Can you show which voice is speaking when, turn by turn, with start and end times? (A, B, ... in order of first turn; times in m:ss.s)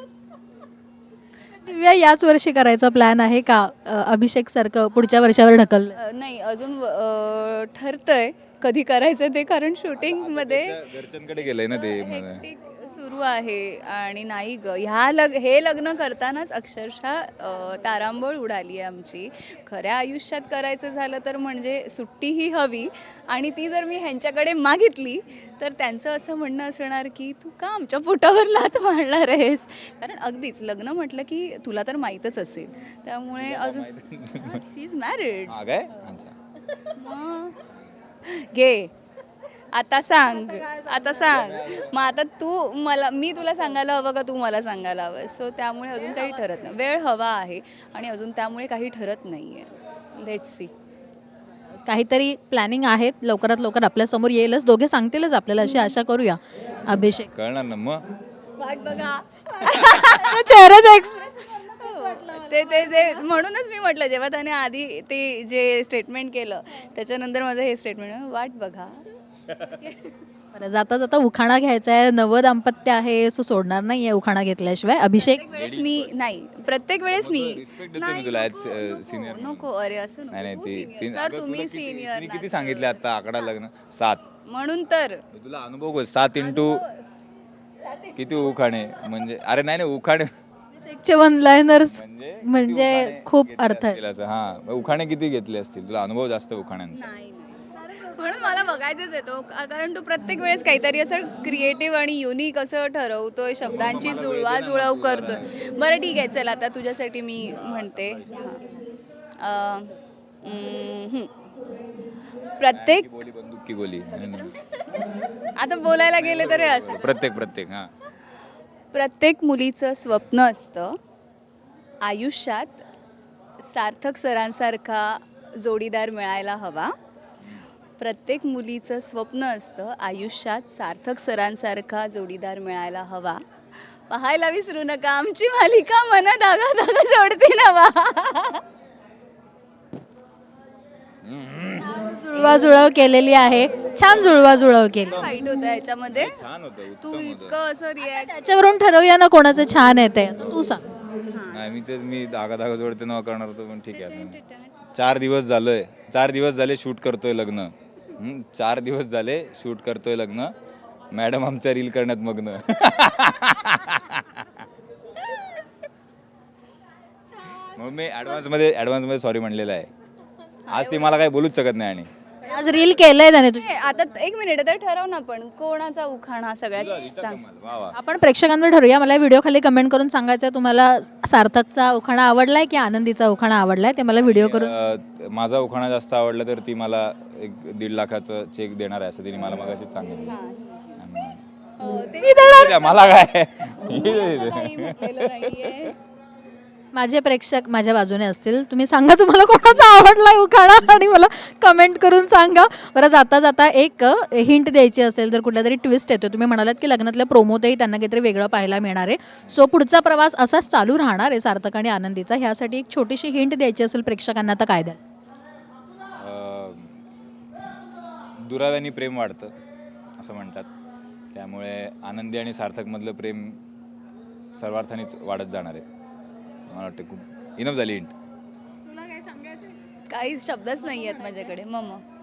0:01.5-0:06.0 A
0:06.0-0:33.9 B
0:10.0-0:12.4 C
0:33.4-0:34.6 C
0:34.4-0:35.6 B
0:35.5-0:36.4 C
0:36.8-0:37.6 B
0:38.2-0:38.9 B
0:39.6-0:50.7 B
0:41.1-0:42.1 C
0:51.9-0:57.3 A
0:57.3-0:58.0 C
0:58.6-1:00.5 B
1:00.0-1:03.3 A
1:01.5-1:09.1 B
1:09.6-1:10.2 B
1:10.5-1:15.5 A
1:15.2-1:23.3 B
1:15.5-1:16.2 C
1:17.1-1:19.7 C
1:20.3-1:24.2 C
1:24.5-1:25.2 B
1:25.3-1:26.8 C
1:26.4-1:27.0 B
1:27.8-1:28.2 B
1:28.2-1:30.3 C
1:30.8-1:34.0 A
1:31.9-1:37.0 C
1:36.9-1:48.6 B
1:43.6-1:45.7 C
1:47.5-1:48.7 C
1:49.4-1:51.3 B
1:52.6-1:53.1 B
1:52.7-1:54.6 C
1:54.3-1:57.2 B
1:56.0-1:57.9 C
1:58.9-2:01.0 B
2:02.0-2:02.8 B
2:03.6-2:06.9 B
2:08.0-2:13.4 B
2:14.1-2:18.6 B
2:21.2-2:22.1 C
2:21.9-2:25.3 A
2:22.4-2:22.7 B
2:25.1-2:26.4 B
2:26.1-2:27.6 C
2:27.0-2:28.4 B
2:28.0-2:30.8 A
2:31.3-2:31.6 B
2:31.5-2:34.4 C
2:33.9-2:34.8 B
2:34.9-2:40.6 C
2:41.1-2:44.6 C
2:47.5-2:49.9 C
2:50.7-2:51.2 B
2:50.7-2:52.1 C
2:52.4-2:53.9 A
2:52.5-2:53.0 B
2:53.5-2:57.4 B
2:56.8-2:58.0 C
2:57.9-3:04.7 A
3:04.2-3:10.4 C
3:10.3-3:11.0 B
3:11.0-3:11.4 C
3:11.8-3:16.0 B
3:12.2-3:12.8 A
3:12.5-3:15.9 C
3:16.9-3:35.0 A
3:36.2-3:37.0 C
3:38.4-3:39.5 C
3:40.2-3:40.7 C
3:41.3-3:43.6 C
3:44.6-3:45.8 C
3:46.7-3:48.1 C
3:49.0-3:49.6 A
3:50.1-3:52.0 B